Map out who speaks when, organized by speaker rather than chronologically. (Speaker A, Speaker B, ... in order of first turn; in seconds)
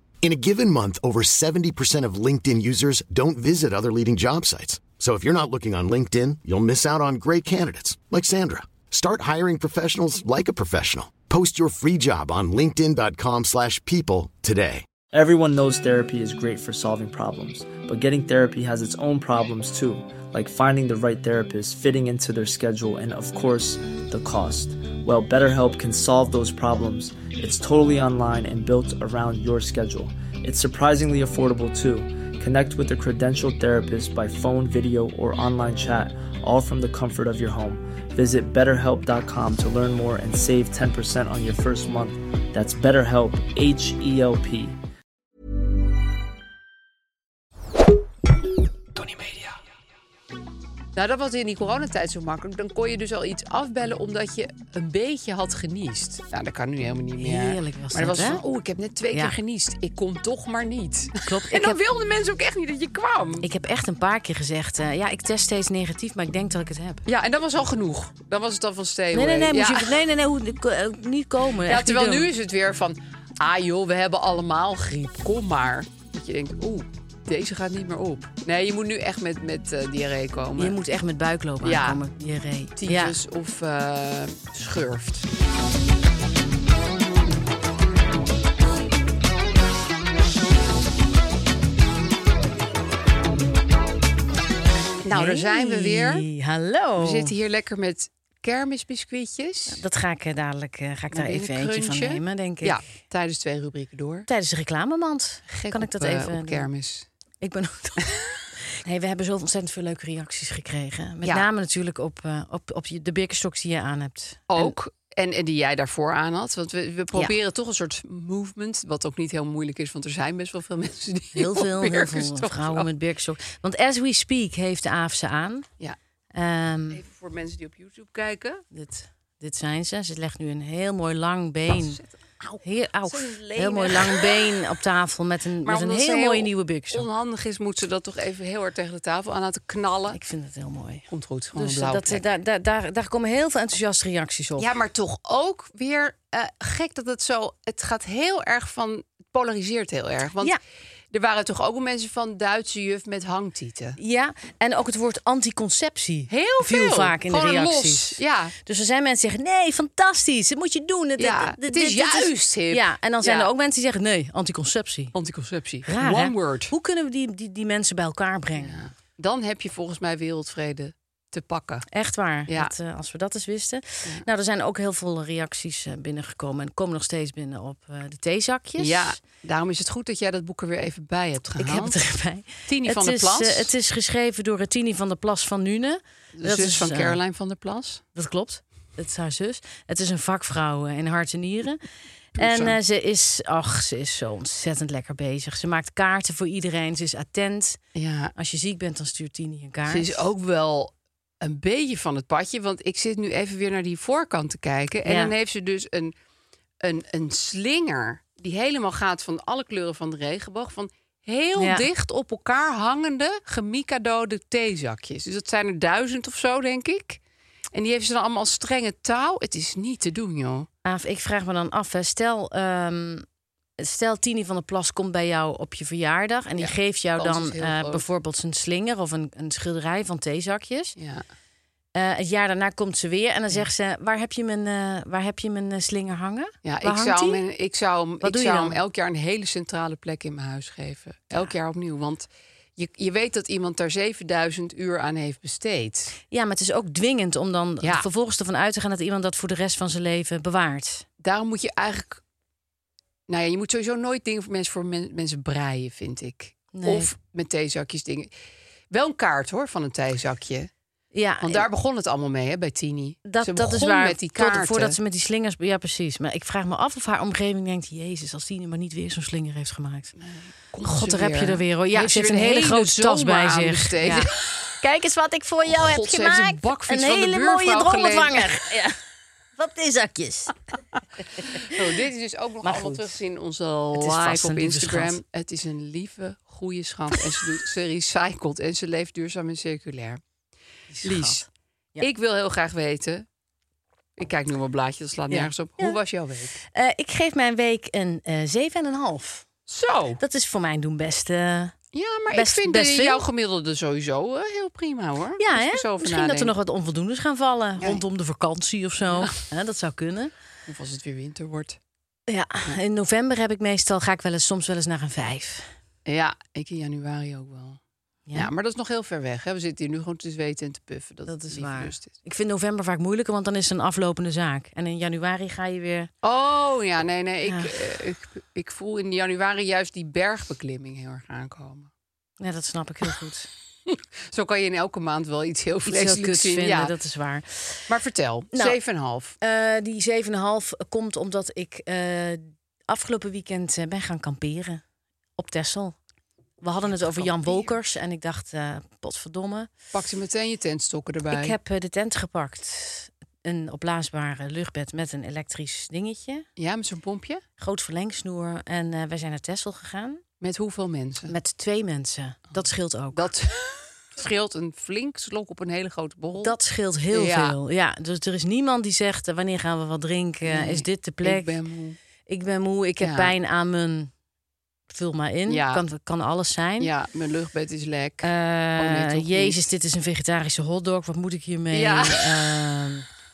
Speaker A: 0.2-14.8
Speaker B: 15.1-44.8
Speaker C: 51.0-63.5, 67.1-69.9, 71.7-80.8, 81.6-82.0, 82.8-85.3, 95.0-96.3, 97.0-99.8, 101.1-104.3, 105.5-107.1, 114.5-122.9, 126.9-128.6, 131.7-134.6, 135.7-140.2, 141.1-142.2, 144.6-150.6, 151.1-154.0, 156.3-158.6, 161.2-163.5, 165.1-166.7, 168.6-171.9, 172.5-172.7, 178.8-182.0, 182.7-183.7, 186.4-188.0, 192.4-192.8, 197.9-198.3, 199.9-206.1, 206.8-217.2, 217.7-220.7, 226.6-228.1, 231.0-231.2, 236.6-246.1, 251.2-252.2, 253.3-258.3, 258.9-260.7, 261.4-265.0, 270.2-274.7, 275.6-278.6, 281.4-290.2, 291.0-291.4, 292.0-293.2, 294.2-296.6, 299.7-300.2, 301.9-306.5, 310.7-311.8, 316.1-317.8, 318.3-322.1, 326.2-331.9, 333.9-336.9, 337.9-339.4, 346.9-347.8, 349.9-351.6, 356.6-357.4, 360.4-361.3, 363.1-366.6, 367.1-367.6, 370.5-372.0, 373.0-373.4, 375.5-375.8, 376.8-379.6, 381.7-382.5
Speaker D: 57.2-58.4, 61.2-61.8, 63.4-67.0, 69.1-72.3, 80.5-83.2, 95.1-97.3, 99.7-102.8, 104.3-106.7, 107.4-108.1, 108.8-114.8, 121.3-125.7, 126.3-127.0, 128.7-132.0, 132.6-137.1, 140.1-144.7, 154.0-165.2, 165.9-168.8, 171.9-179.2, 181.6-187.2, 188.2-191.8, 192.4-197.8, 198.4-200.3, 205.1-205.3, 211.6-211.9, 220.8-223.2, 223.8-231.0, 231.9-237.4, 238.2-238.8, 246.3-251.1, 256.7-257.1, 261.1-261.7, 263.2-270.1, 270.9-274.3, 274.8-279.0, 279.6-280.6, 281.4-281.8, 282.6-283.1, 283.9-285.2, 290.9-292.1, 295.3-296.0, 296.7-299.5, 300.2-301.8, 302.3-303.2, 305.4-310.3, 312.3-315.7, 321.3-326.1, 327.5-327.7, 332.4-333.5, 335.9-337.9, 339.4-344.8, 345.4-346.0, 346.6-349.7, 351.3-356.4, 357.6-360.2, 361.3-363.3, 366.4-371.6, 372.3-374.1, 374.9-376.9, 378.2-383.1